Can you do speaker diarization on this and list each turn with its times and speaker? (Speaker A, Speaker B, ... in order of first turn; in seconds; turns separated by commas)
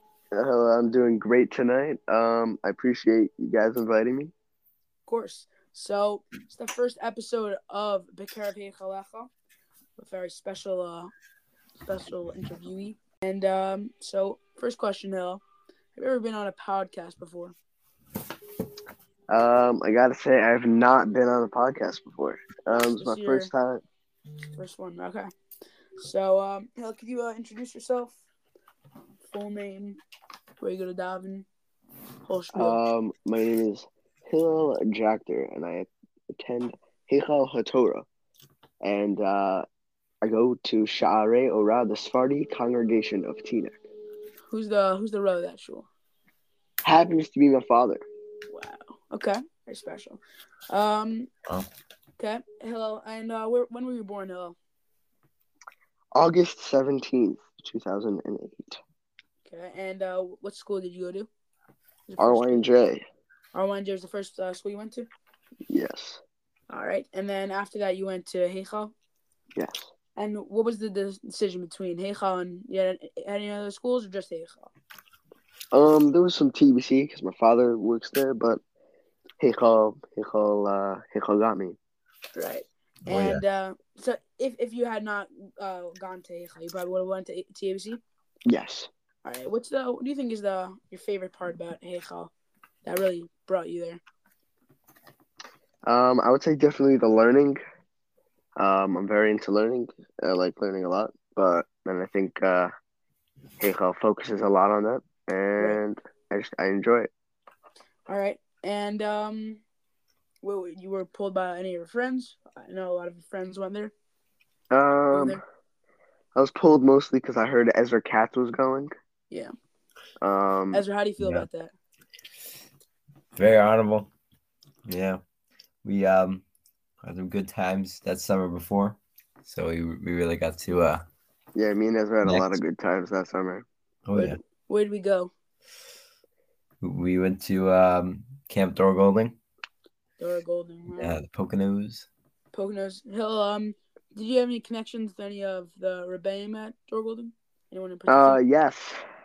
Speaker A: 0.3-4.3, Speaker B: 5.1-9.3, Speaker B: 10.0-11.1, Speaker B: 11.8-15.4, Speaker B: 15.9-17.5, Speaker A: 19.3-23.8, Speaker B: 22.7-23.5, Speaker B: 24.6-25.3, Speaker B: 26.0-28.1, Speaker B: 29.2-30.0, Speaker B: 30.6-31.5, Speaker B: 32.3-32.8, Speaker A: 32.5-38.1, Speaker A: 38.8-39.6, Speaker A: 40.2-43.8, Speaker B: 44.5-45.9, Speaker A: 46.8-48.0, Speaker B: 48.5-51.3, Speaker B: 52.2-54.6, Speaker A: 56.1-58.8, Speaker B: 59.5-61.3, Speaker B: 62.1-62.7, Speaker A: 62.2-63.0, Speaker B: 63.5-65.1, Speaker A: 65.7-66.2, Speaker B: 66.7-68.9, Speaker A: 69.5-69.9, Speaker B: 70.2-74.7, Speaker A: 75.7-78.6, Speaker A: 79.4-81.8, Speaker B: 82.4-88.0, Speaker C: 83.1-83.4, Speaker A: 88.5-88.9, Speaker B: 89.2-92.3, Speaker B: 92.8-94.0, Speaker A: 95.8-97.6, Speaker A: 98.6-102.7, Speaker A: 103.6-107.1, Speaker B: 108.1-109.6, Speaker B: 110.4-113.9, Speaker A: 114.7-115.4, Speaker B: 115.1-115.4, Speaker A: 116.3-118.9, Speaker A: 120.2-120.8, Speaker B: 120.7-121.7, Speaker C: 121.2-121.5, Speaker C: 123.3-124.1, Speaker C: 124.9-125.2, Speaker C: 125.8-126.4, Speaker C: 127.0-131.1, Speaker A: 131.6-133.7, Speaker C: 132.2-132.6, Speaker C: 134.1-134.4, Speaker B: 134.1-135.3, Speaker C: 136.8-139.4, Speaker B: 140.2-141.2, Speaker C: 141.0-142.1, Speaker B: 142.5-148.4, Speaker A: 148.1-149.0